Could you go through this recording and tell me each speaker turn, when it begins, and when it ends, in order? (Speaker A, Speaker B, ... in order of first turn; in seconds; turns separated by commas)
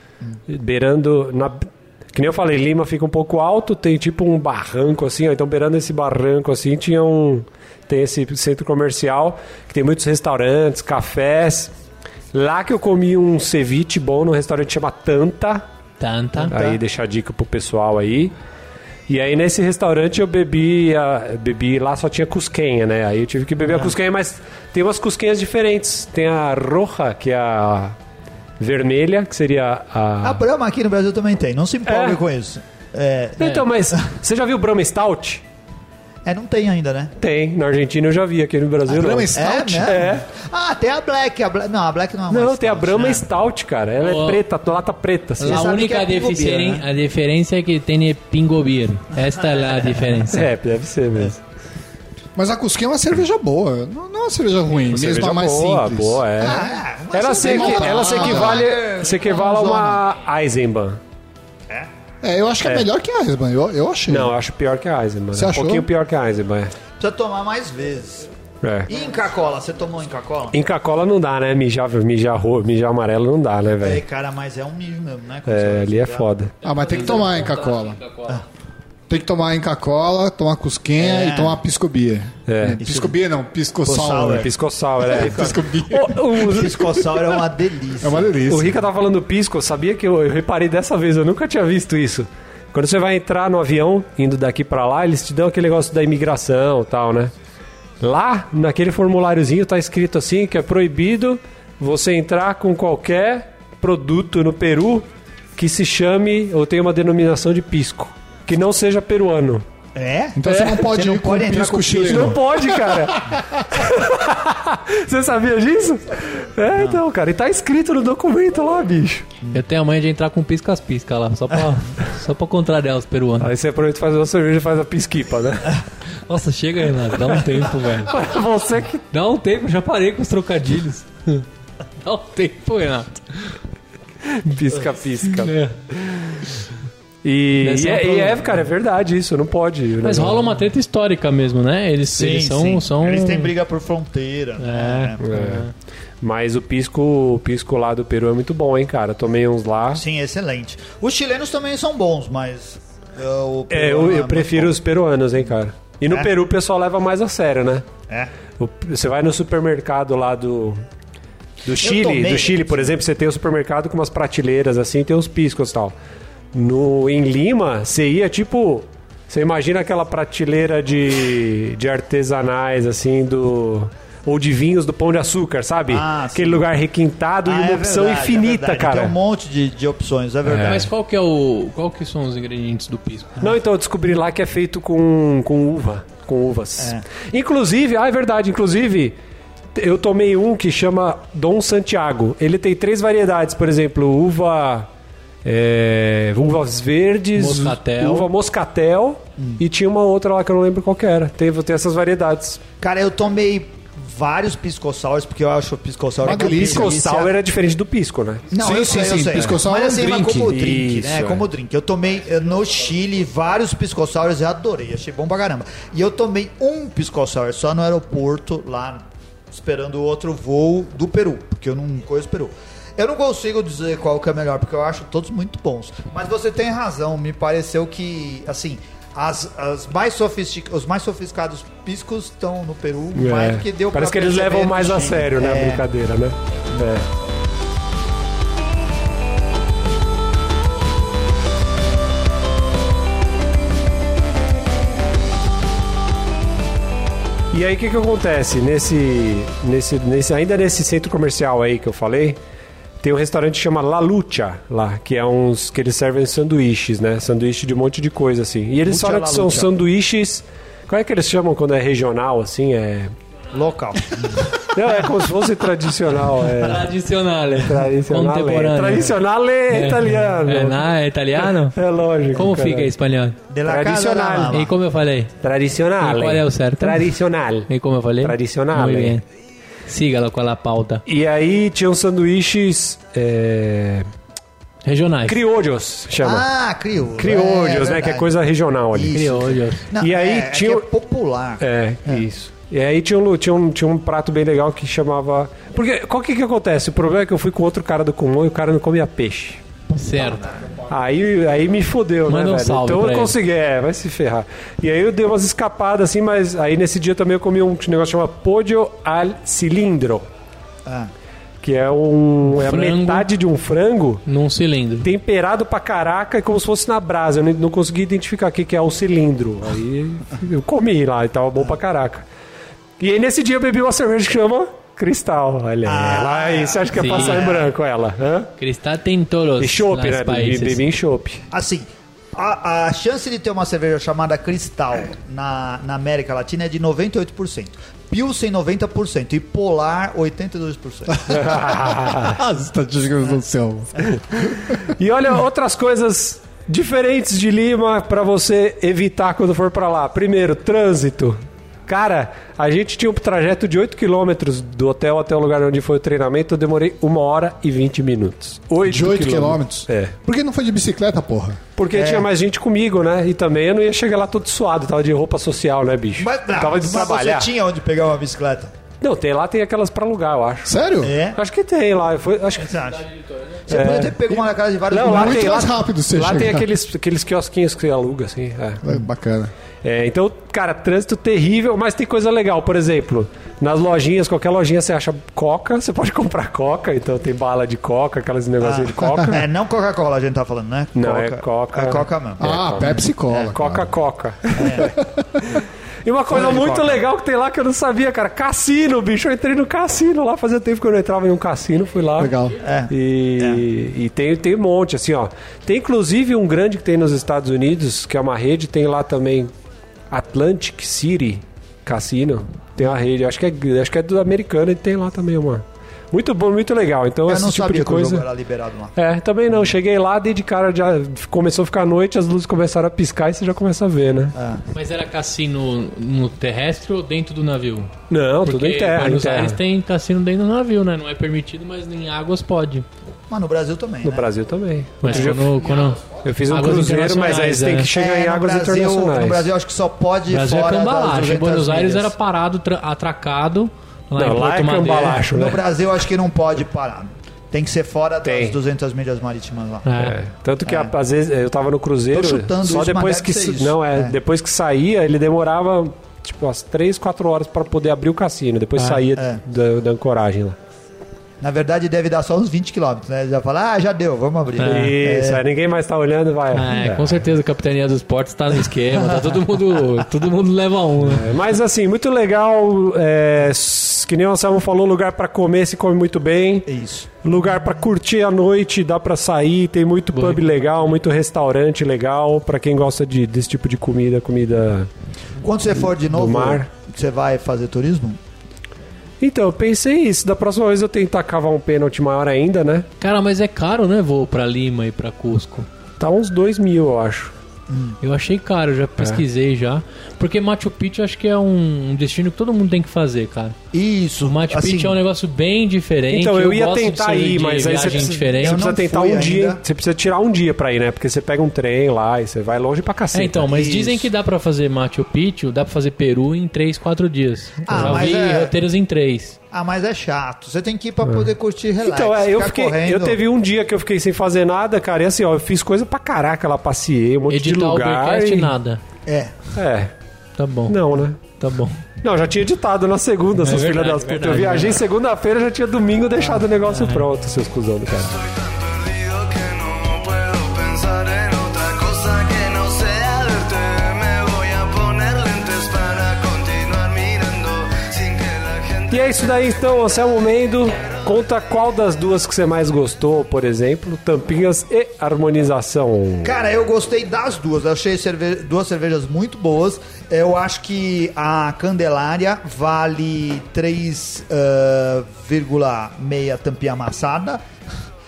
Speaker A: 0.5-11.7, Speaker A: 12.3-15.6, Speaker B: 16.0-16.5, Speaker C: 16.4-16.8, Speaker A: 16.5-18.3, Speaker A: 19.1-27.9, Speaker A: 28.6-30.4, Speaker C: 30.2-34.0, Speaker A: 31.9-32.2, Speaker A: 33.4-35.4, Speaker C: 36.2-37.1, Speaker A: 37.2-40.2, Speaker D: 38.9-40.0, Speaker C: 39.3-43.2, Speaker A: 42.3-45.7, Speaker B: 44.0-44.4, Speaker B: 45.4-50.5, Speaker C: 45.4-46.8, Speaker C: 49.4-49.9, Speaker A: 50.3-51.4, Speaker D: 52.4-56.6, Speaker A: 54.9-61.0, Speaker C: 56.4-60.0, Speaker D: 57.3-58.7, Speaker D: 62.2-64.3, Speaker A: 64.1-66.7, Speaker D: 65.3-65.9, Speaker C: 67.0-68.3, Speaker A: 68.6-68.9, Speaker C: 68.9-70.6, Speaker A: 70.5-74.0, Speaker C: 73.8-76.3, Speaker A: 75.5-76.5, Speaker B: 76.6-78.4, Speaker D: 76.6-78.0, Speaker D: 79.1-84.5, Speaker C: 81.0-81.6, Speaker A: 82.5-82.8, Speaker C: 82.8-83.1, Speaker C: 83.8-84.5, Speaker A: 84.3-87.2, Speaker D: 85.0-86.4, Speaker C: 85.1-85.5, Speaker C: 86.3-88.3, Speaker D: 88.0-88.8, Speaker A: 88.5-97.3, Speaker A: 98.0-105.0, Speaker A: 105.6-109.6, Speaker C: 109.9-112.4, Speaker D: 110.3-113.5, Speaker A: 112.0-119.3, Speaker C: 116.7-117.0, Speaker B: 119.5-123.5, Speaker A: 123.4-125.8, Speaker B: 126.2-128.1, Speaker A: 128.1-129.0, Speaker B: 129.1-131.4, Speaker B: 132.0-133.6, Speaker A: 134.2-136.5, Speaker B: 135.3-135.7, Speaker A: 137.2-140.5, Speaker B: 137.6-138.6, Speaker B: 140.0-143.5, Speaker C: 142.1-145.2, Speaker B: 144.6-145.7, Speaker A: 145.2-145.7, Speaker A: 146.2-150.0, Speaker C: 149.9-154.8, Speaker A: 153.7-157.8, Speaker A: 158.6-160.8, Speaker A: 161.6-165.9, Speaker C: 161.8-162.9, Speaker A: 166.5-179.1, Speaker C: 175.9-176.7, Speaker C: 177.4-180.9, Speaker A: 180.4-180.8, Speaker B: 180.6-183.4, Speaker A: 183.4-189.2, Speaker C: 186.8-187.0, Speaker A: 189.7-194.9, Speaker A: 195.4-202.6, Speaker B: 197.3-198.3, Speaker C: 202.8-207.3, Speaker D: 206.2-207.0, Speaker A: 206.2-209.6, Speaker C: 208.5-235.8, Speaker D: 208.6-210.6, Speaker A: 210.5-211.5, Speaker A: 233.1-237.1, Speaker A: 247.5-252.4, Speaker A: 253.0-263.1, Speaker C: 258.9-259.7, Speaker C: 263.5-264.8, Speaker A: 264.5-266.9, Speaker B: 266.6-269.2, Speaker A: 267.6-272.9, Speaker B: 269.7-271.8, Speaker B: 272.3-273.4, Speaker C: 273.5-274.7, Speaker A: 273.6-274.7, Speaker B: 274.5-275.3, Speaker A: 275.4-277.7, Speaker B: 276.0-277.1, Speaker B: 277.7-279.2, Speaker A: 278.2-279.2, Speaker B: 279.9-281.0, Speaker A: 281.1-284.1, Speaker B: 284.8-285.4, Speaker A: 285.2-286.4, Speaker C: 286.2-288.3, Speaker A: 287.2-289.2, Speaker C: 288.9-292.2, Speaker B: 289.1-289.8, Speaker A: 290.0-290.8, Speaker A: 291.6-299.6, Speaker B: 299.9-300.4, Speaker C: 300.1-300.6, Speaker A: 300.9-310.3, Speaker B: 302.3-303.3, Speaker C: 310.9-311.1, Speaker A: 311.6-314.2, Speaker B: 312.5-313.3, Speaker B: 314.3-315.1, Speaker A: 315.0-322.2, Speaker A: 323.0-328.5, Speaker C: 325.8-327.7, Speaker B: 326.9-327.4, Speaker B: 328.6-330.8, Speaker A: 329.6-331.4, Speaker C: 331.5-341.4, Speaker A: 341.3-342.4, Speaker D: 341.3-344.7, Speaker A: 344.3-360.1, Speaker D: 358.8-361.6, Speaker A: 361.8-367.5, Speaker C: 361.9-362.3, Speaker C: 366.2-368.7, Speaker A: 369.0-370.7, Speaker D: 370.6-371.1, Speaker C: 371.0-371.4, Speaker A: 371.3-372.8, Speaker C: 372.6-373.0, Speaker B: 372.8-373.6, Speaker C: 373.7-375.7, Speaker A: 373.7-374.1, Speaker A: 374.9-378.8, Speaker D: 374.9-376.7, Speaker D: 378.8-379.5, Speaker A: 379.8-389.4, Speaker C: 388.6-393.5, Speaker A: 390.9-402.3, Speaker D: 392.4-393.9, Speaker C: 394.5-394.9, Speaker C: 396.3-397.1, Speaker D: 402.2-402.6, Speaker C: 402.6-403.6, Speaker A: 402.9-409.5, Speaker A: 410.1-418.2, Speaker C: 417.3-418.9, Speaker A: 418.9-424.3, Speaker C: 424.3-424.6, Speaker B: 424.7-427.9, Speaker A: 428.1-429.6, Speaker B: 428.4-432.9, Speaker C: 433.3-434.3, Speaker A: 434.0-439.5, Speaker B: 435.0-437.9, Speaker C: 437.1-442.1, Speaker B: 440.3-445.3, Speaker A: 444.2-445.6, Speaker C: 445.1-449.9, Speaker A: 448.2-448.6, Speaker B: 449.8-450.2, Speaker A: 450.0-460.6, Speaker C: 450.6-450.9, Speaker C: 452.1-454.2, Speaker B: 458.8-459.0, Speaker C: 459.1-459.4, Speaker C: 461.4-465.4, Speaker B: 464.6-464.9, Speaker A: 464.6-467.2, Speaker B: 466.5-471.3, Speaker A: 471.0-476.7, Speaker C: 476.6-477.1, Speaker A: 477.2-484.9, Speaker B: 480.1-480.9, Speaker C: 485.4-488.2, Speaker A: 486.0-486.7, Speaker A: 489.2-492.9, Speaker B: 493.0-495.7, Speaker A: 496.0-497.3, Speaker C: 497.7-498.0, Speaker B: 498.0-503.6, Speaker A: 499.0-499.2, Speaker C: 503.7-505.0, Speaker B: 504.2-508.7, Speaker A: 506.1-513.5, Speaker C: 508.4-509.6, Speaker B: 513.1-519.4, Speaker C: 513.5-514.1, Speaker C: 517.6-518.5, Speaker A: 517.7-518.1, Speaker C: 519.5-523.2, Speaker A: 521.8-528.5, Speaker B: 527.3-528.8, Speaker C: 529.0-529.5, Speaker A: 529.5-529.9, Speaker B: 530.4-530.8, Speaker A: 530.7-531.2, Speaker B: 531.3-531.8, Speaker A: 532.0-538.1, Speaker B: 533.4-534.8, Speaker B: 536.7-537.0, Speaker E: 538.0-550.0, Speaker A: 548.9-556.3, Speaker C: 556.2-567.4